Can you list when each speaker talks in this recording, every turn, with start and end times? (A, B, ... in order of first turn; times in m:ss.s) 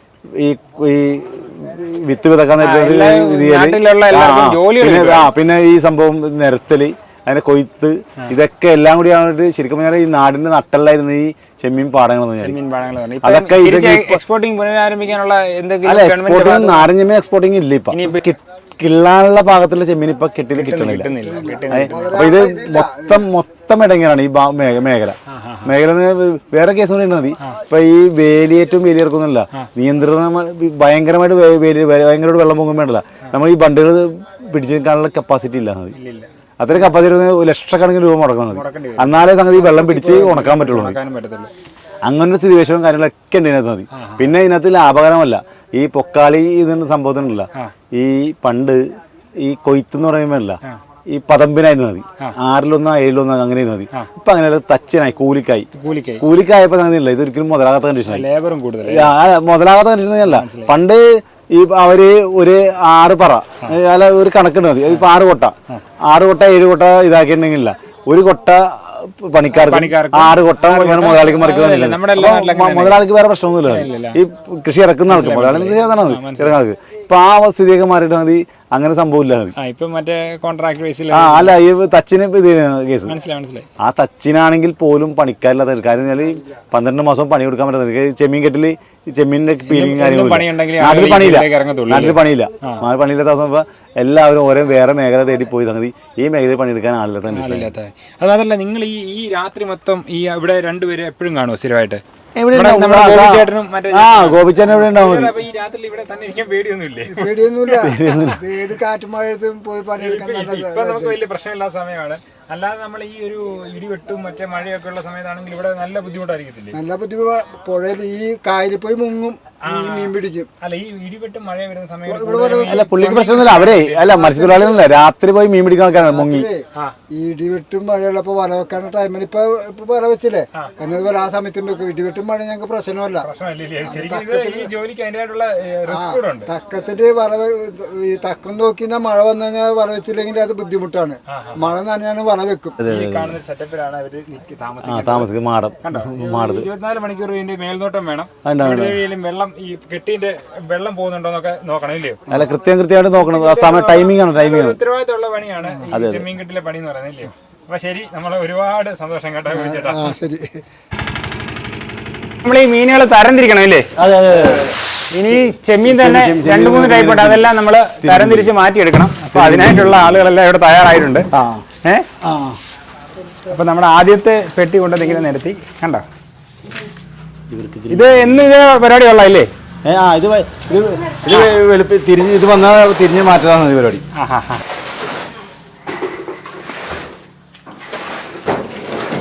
0:00.4-0:12.6 A
0:02.6-0:05.3 B
0:12.4-0:16.9 B
0:13.2-0:14.2 A
0:15.8-0:21.1 A
0:17.9-0:18.3 B
0:20.5-0:22.3 B
0:21.2-0:23.2 C
0:21.7-0:35.9 A
0:25.3-0:25.7 B
0:35.9-0:36.3 B
0:36.6-0:41.0 A
0:38.5-0:39.2 B
0:39.6-0:40.5 C
0:40.1-0:41.5 B
0:42.0-0:48.8 A
0:43.9-0:44.2 B
0:49.4-0:50.6 A
0:51.1-0:55.7 A
0:55.7-0:56.2 B
0:56.2-0:58.2 A
0:58.1-0:59.1 B
0:58.8-1:05.6 A
1:00.2-1:00.7 B
1:06.1-1:19.5 A
1:09.5-1:13.0 B
1:13.6-1:14.2 B
1:15.1-1:16.6 B
1:19.6-1:21.5 B
1:21.1-1:23.1 A
1:23.1-1:23.7 B
1:23.8-1:37.7 A
1:29.7-1:32.8 B
1:37.3-1:42.0 B
1:42.4-1:45.3 A
1:42.5-1:48.4 B
1:47.1-1:51.2 C
1:47.7-1:48.4 A
1:50.0-1:56.8 B
1:56.7-2:00.5 C
1:59.6-2:04.2 B
2:02.1-2:03.3 C
2:02.6-2:06.5 A
2:04.1-2:04.8 C
2:06.0-2:13.3 C
2:13.2-2:16.5 B
2:13.8-2:14.7 C
2:15.9-2:22.8 C
2:21.3-2:21.8 B
2:22.8-2:23.3 A
2:22.8-2:25.3 B
2:24.8-2:26.7 A
2:25.8-2:32.2 B
2:28.4-2:29.0 A
2:32.3-2:34.8 A
2:33.2-2:40.2 B
2:35.9-2:36.3 A
2:39.5-2:40.6 C
2:42.4-2:43.9 B
2:44.0-2:44.8 A
2:45.1-2:51.3 B
2:45.8-2:47.5 A
2:48.0-2:48.5 A
2:49.3-2:50.2 A
2:51.3-2:51.6 A
2:52.2-2:52.6 A
2:53.4-2:56.0 B
2:57.5-2:58.4 A
2:57.9-2:59.5 B
2:59.8-3:04.0 A
3:04.2-3:04.6 B